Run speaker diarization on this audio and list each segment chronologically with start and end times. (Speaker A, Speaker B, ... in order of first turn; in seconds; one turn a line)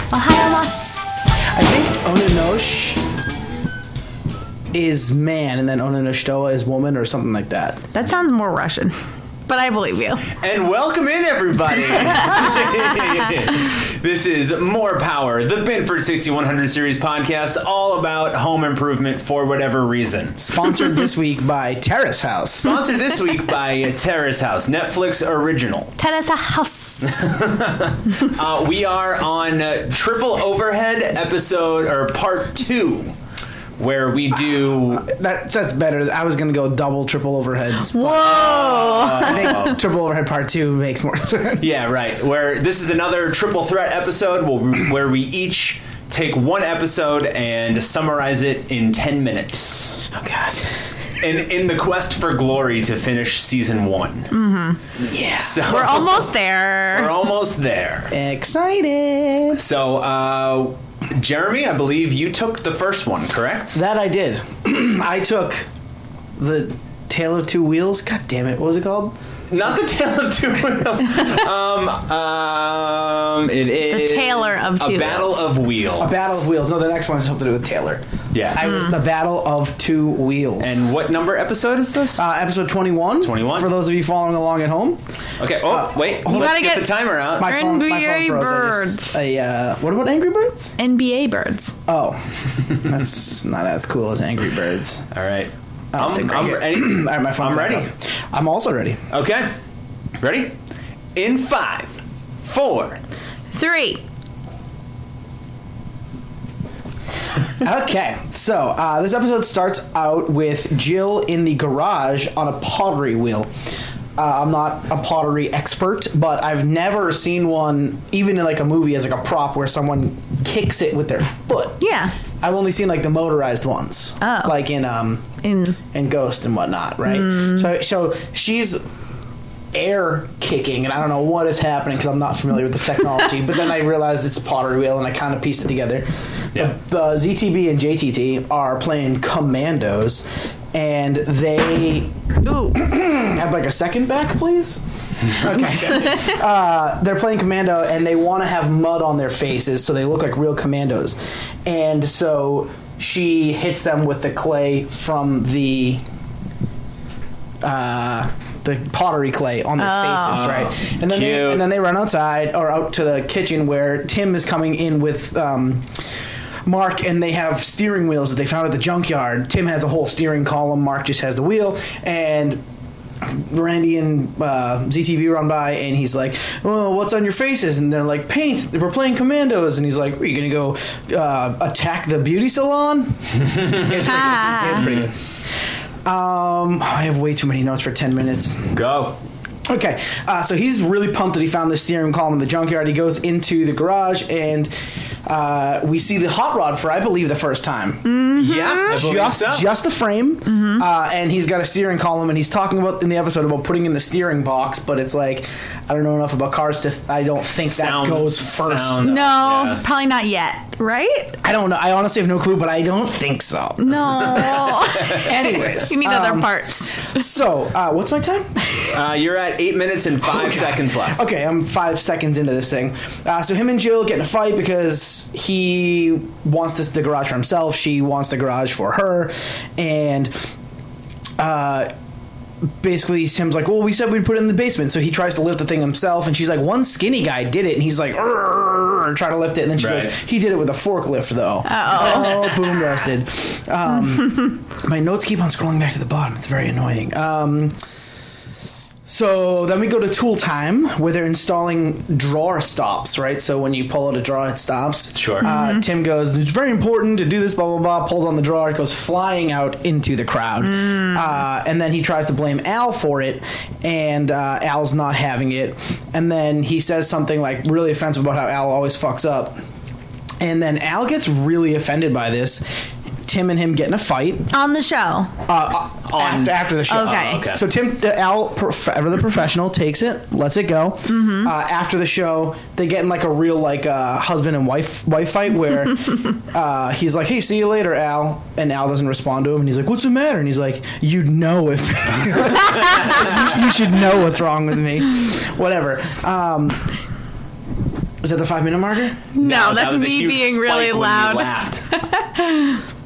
Speaker A: 0.1-1.3
Speaker B: 1.5-3.0
Speaker B: 4.7-7.8
Speaker A: 7.9-8.9
Speaker A: 9.5-10.3
Speaker C: 10.3-20.4
Speaker B: 20.4-22.8
Speaker C: 22.6-25.9
Speaker A: 26.0-27.2
Speaker C: 27.1-33.1
Speaker C: 33.8-35.1
Speaker B: 34.9-41.8
Speaker A: 37.9-39.7
Speaker C: 38.2-39.8
Speaker C: 41.6-50.0
Speaker B: 50.1-50.7
Speaker C: 51.2-54.3
Speaker A: 54.3-54.8
Speaker B: 55.0-55.8
Speaker C: 55.4-56.3
Speaker A: 55.6-57.1
Speaker C: 56.9-58.1
Speaker B: 58.1-59.6
Speaker C: 59.5-63.8
Speaker B: 63.7-65.7
Speaker B: 66.4-69.2
Speaker C: 69.5-76.5
Speaker A: 73.9-75.4
Speaker B: 76.0-80.8
Speaker C: 78.3-78.7
Speaker C: 80.6-82.2
Speaker B: 82.1-85.0
Speaker C: 83.2-83.7
Speaker C: 85.4-87.5
Speaker B: 85.6-86.7
Speaker A: 86.3-89.2
Speaker B: 87.3-90.8
Speaker A: 90.8-91.7
Speaker B: 91.9-95.0
Speaker C: 95.1-97.9
Speaker B: 95.9-99.0
Speaker C: 99.1-99.5
Speaker C: 100.2-100.5
Speaker C: 101.1-103.0
Speaker A: 103.5-104.0
Speaker B: 107.6-113.5
Speaker B: 114.2-121.8
Speaker A: 121.8-122.1
Speaker B: 122.4-125.2
Speaker A: 124.2-124.5
Speaker A: 125.4-125.8
Speaker B: 125.9-128.8
Speaker A: 127.1-127.7
Speaker B: 129.7-142.1
Speaker A: 142.4-142.8
Speaker B: 142.7-156.0
Speaker A: 145.9-146.3
Speaker B: 157.6-165.9
Speaker A: 159.8-160.7
Speaker C: 160.3-161.7
Speaker B: 166.6-172.6
Speaker B: 173.2-185.1
Speaker C: 183.4-185.1
Speaker A: 184.1-184.8
Speaker B: 186.0-188.8
Speaker C: 188.7-189.2
Speaker B: 189.7-194.7
Speaker B: 195.2-198.2
Speaker A: 198.0-199.0
Speaker C: 198.3-199.7
Speaker B: 198.8-209.2
Speaker A: 200.5-200.8
Speaker C: 207.7-209.8
Speaker A: 209.0-211.3
Speaker B: 211.4-219.1
Speaker A: 213.8-217.2
Speaker C: 214.3-215.2
Speaker C: 218.9-221.2
Speaker B: 220.2-230.3
Speaker B: 231.4-231.9
Speaker B: 232.8-247.8
Speaker C: 239.8-240.1
Speaker A: 241.6-242.5
Speaker B: 249.1-269.6
Speaker C: 255.2-255.5
Speaker A: 255.4-255.8
Speaker A: 260.6-261.2
Speaker B: 270.4-274.5
Speaker A: 274.5-275.3
Speaker B: 275.5-296.9
Speaker C: 276.1-277.6
Speaker A: 276.9-277.4
Speaker A: 281.1-281.5
Speaker B: 298.2-299.2
Speaker A: 299.3-302.8
Speaker C: 299.4-301.8